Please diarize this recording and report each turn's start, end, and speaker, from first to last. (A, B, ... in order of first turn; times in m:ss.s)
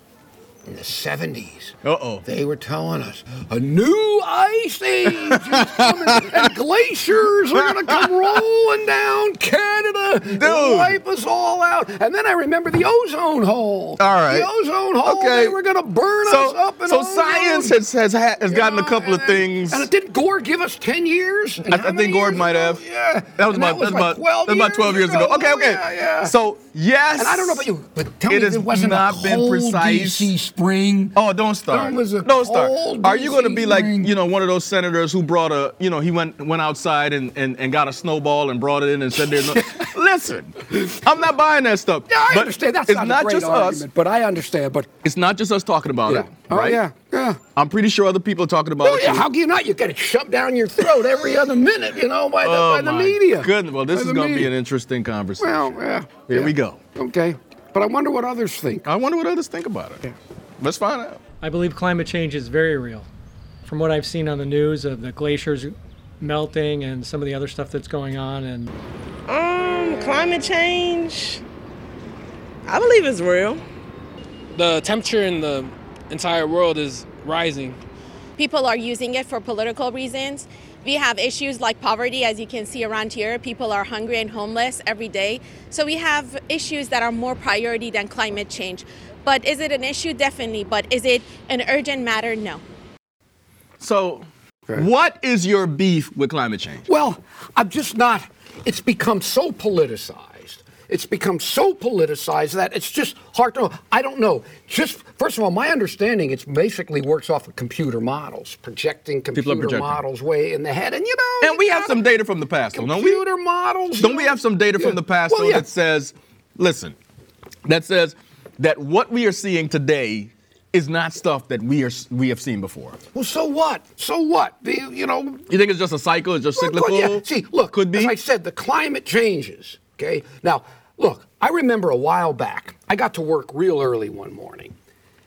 0:00.6-0:17.8 A
0:01.8-0:02.2 B
0:05.1-0:06.5 B
0:07.6-0:08.4 B
0:10.3-0:11.0 B
0:14.0-0:14.5 B
0:15.0-0:15.6 B
0:16.2-0:19.9 B
0:18.4-0:26.3 A
0:21.6-0:22.8 B
0:23.4-0:27.7 B
0:27.2-0:31.2 A
0:28.3-0:30.3 B
0:31.1-0:43.8 B
0:31.7-0:34.1 A
0:39.4-0:39.6 A
0:42.1-0:44.9 A
0:45.0-0:46.8 B
0:46.0-0:47.4 A
0:47.5-0:49.2 B
0:48.8-0:54.5 A
0:52.4-0:56.8 B
0:55.4-0:58.8 A
0:58.8-1:01.2 B
1:01.4-1:03.1 C
1:03.6-1:08.7 C
1:09.3-1:11.4 D
1:12.6-1:13.6 D
1:14.5-1:17.8 E
1:18.4-1:32.6 F
1:33.8-1:36.9 B
1:36.9-1:52.0 A
1:49.3-1:50.0 B
1:51.4-1:53.2 B
1:52.7-1:55.6 A
1:54.0-1:57.0 B
1:57.6-2:03.0 B
2:03.1-2:05.4 A
2:05.5-2:08.1 B
2:06.6-2:14.7 A